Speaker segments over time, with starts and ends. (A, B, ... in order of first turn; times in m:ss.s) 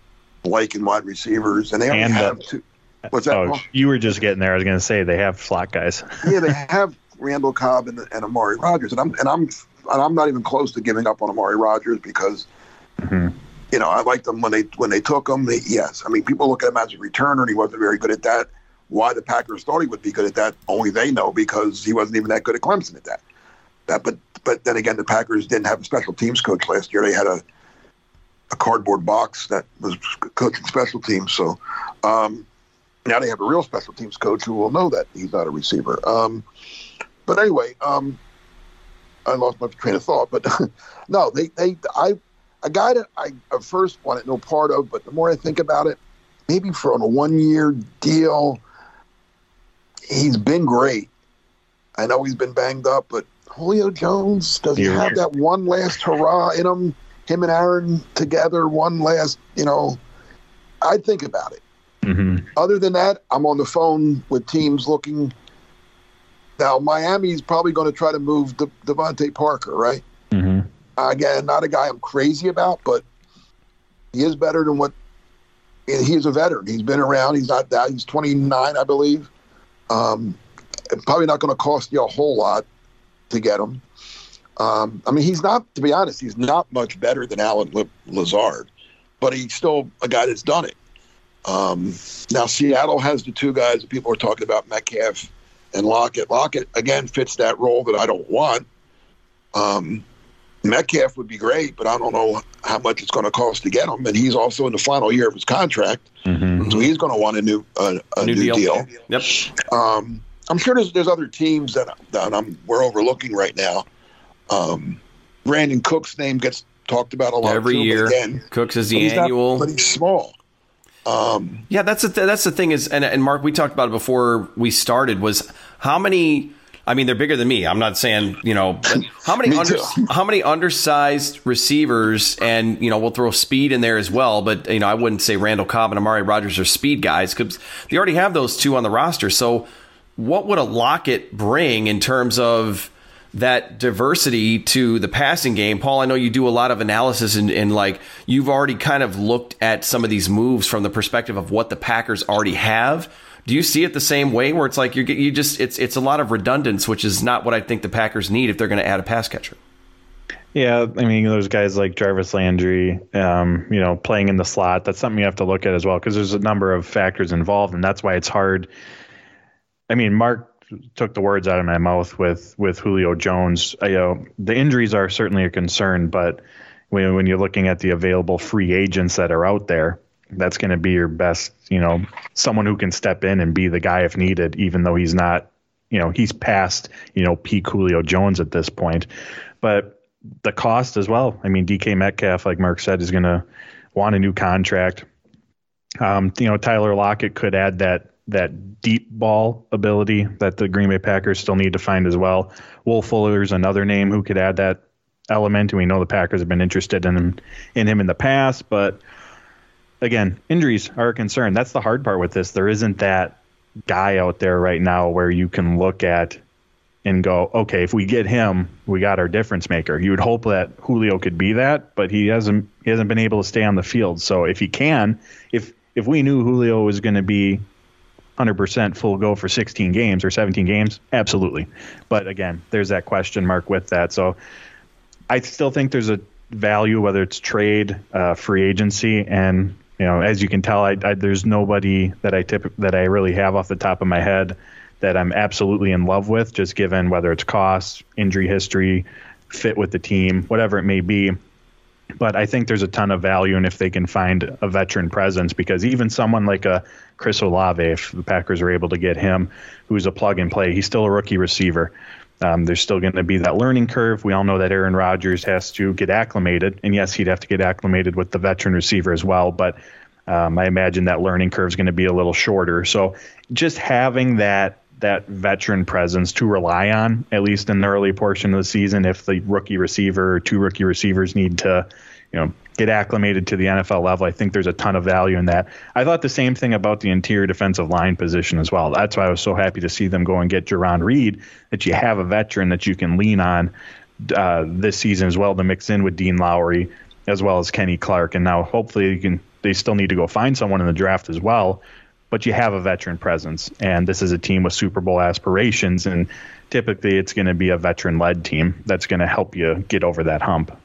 0:00.4-0:03.7 A
0:01.9-0:02.4 B
0:03.3-0:06.5 B
0:06.2-0:12.5 A
0:13.0-0:13.3 B
0:13.7-0:23.2 A
0:23.9-0:27.4 A
0:28.5-0:32.4 A
0:33.0-0:36.4 A
0:37.3-0:38.2 A
0:39.3-0:48.6 A
0:50.1-0:51.1 A
0:52.0-1:00.0 A
0:54.8-0:55.2 B
1:00.8-1:01.6 A
1:02.0-1:02.5 B
1:02.6-1:05.3 A
1:06.6-1:10.0 A
1:10.3-1:10.7 B
1:11.0-1:13.0 A
1:14.1-1:14.9 A
1:15.9-1:19.3 A
1:19.9-1:20.4 A
1:20.9-1:22.6 A
1:23.3-1:23.8 A
1:24.6-1:28.7 A
1:29.2-1:30.8 A
1:31.4-1:38.7 A
1:39.5-1:40.0 A
1:40.6-1:46.1 A
1:46.3-1:46.6 B
1:46.6-1:46.9 C
1:46.7-1:53.9 A
1:48.2-1:49.4 C
1:54.5-1:58.4 A
1:57.4-1:59.7 C
1:59.0-2:00.3 A
2:01.0-2:01.7 A
2:01.7-2:39.6 C
2:08.9-2:10.1 A
2:40.5-2:48.7 B
2:49.9-3:09.1 B
3:09.6-3:15.0 B
3:16.0-3:29.0 B
3:30.0-3:36.4 B
3:37.0-3:47.6 B
3:48.4-3:54.4 B
3:55.3-4:11.4 B
4:12.2-5:10.8 B